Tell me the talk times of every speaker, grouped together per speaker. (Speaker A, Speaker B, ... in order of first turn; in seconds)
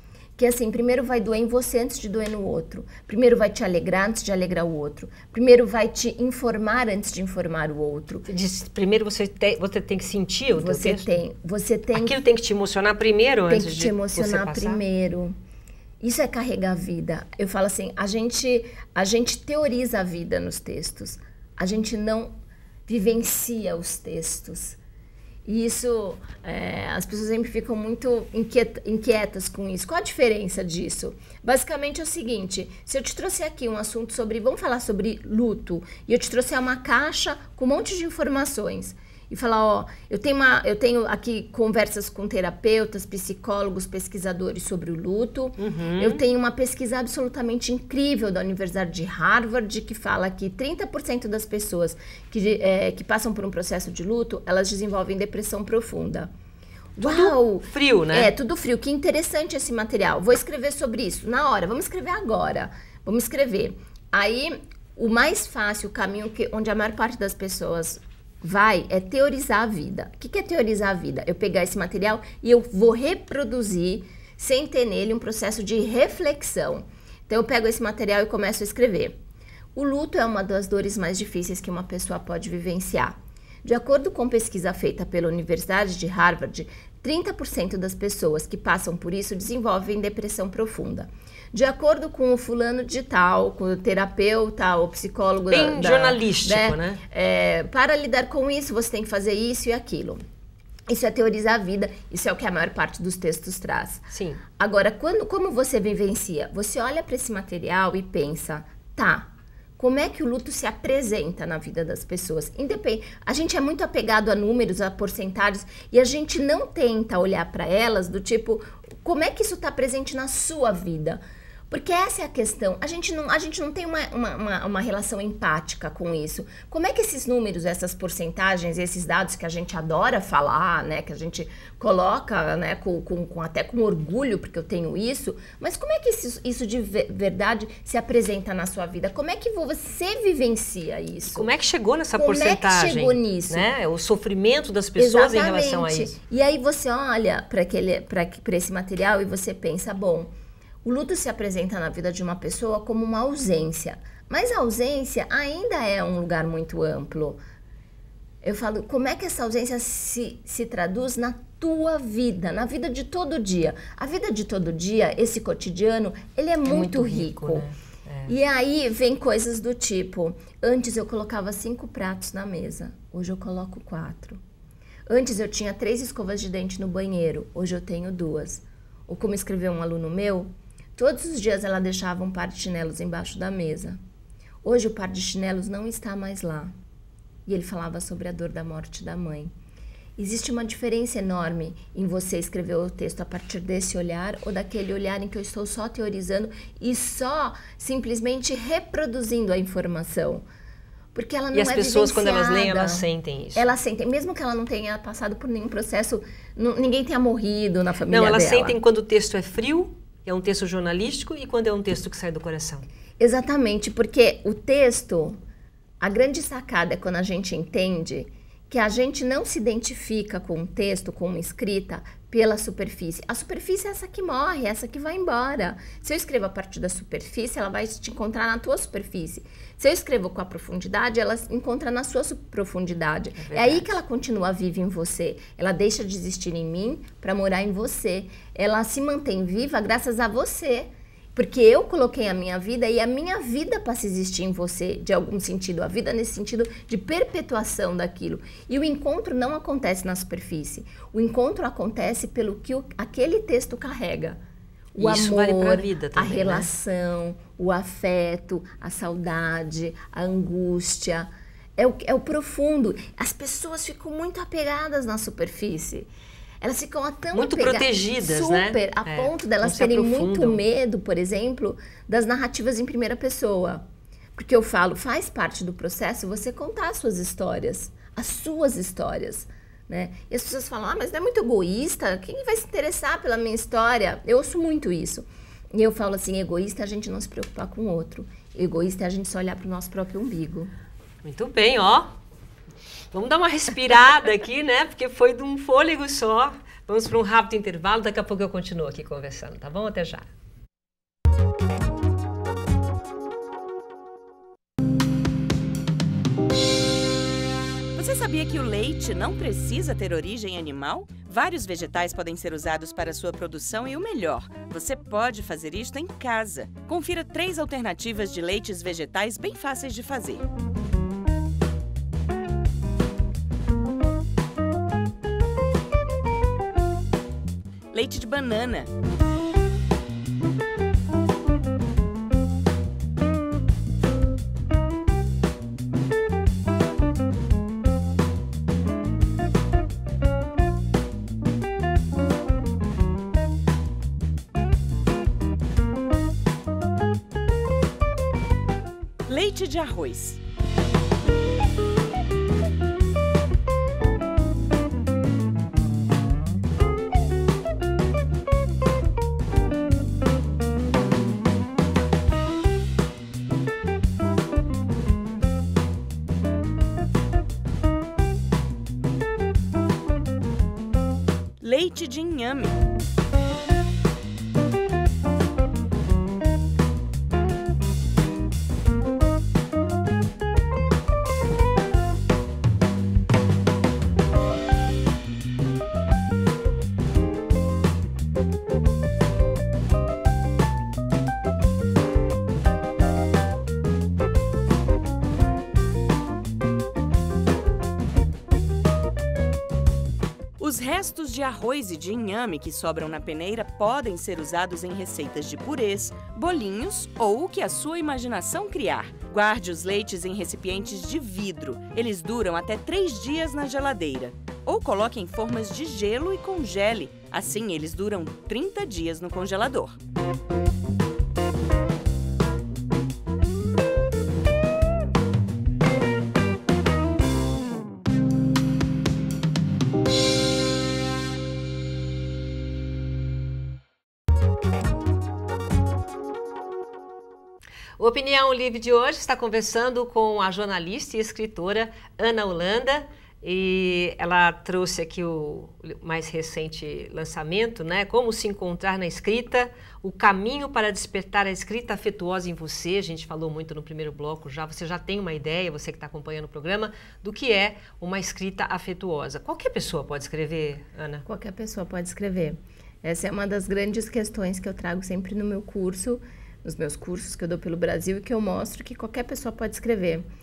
Speaker A: 0.4-8.3, 10.6-12.2, 13.5-15.3, 16.0-22.3, 22.9-24.8, 25.4-56.3, 57.0-79.2, 79.7-100.2, 100.9-141.5, 142.1-143.7, 144.9-150.3, 150.8-157.4, 158.4-167.7, 168.3-174.4, 175.1-184.0, 184.6-186.7, 187.4-189.5, 190.2-200.4, 201.1-208.8, 213.2-215.4, 216.0-254.4, 254.9-266.1, 266.6-273.8, 274.4-290.7, 461.2-470.3
Speaker B: 8.2-11.1, 11.9-14.8, 45.6-46.2, 57.0-58.3, 95.5-97.0, 104.1-104.4, 141.3-146.2, 166.7-168.3, 201.5-203.7, 208.1-212.9, 233.4-233.9, 254.9-256.7, 267.3-270.6, 291.2-292.1, 293.1-300.3, 438.0-461.2
Speaker C: 307.9-320.4, 327.9-328.9, 349.3-350.4, 371.6-372.8, 400.6-420.0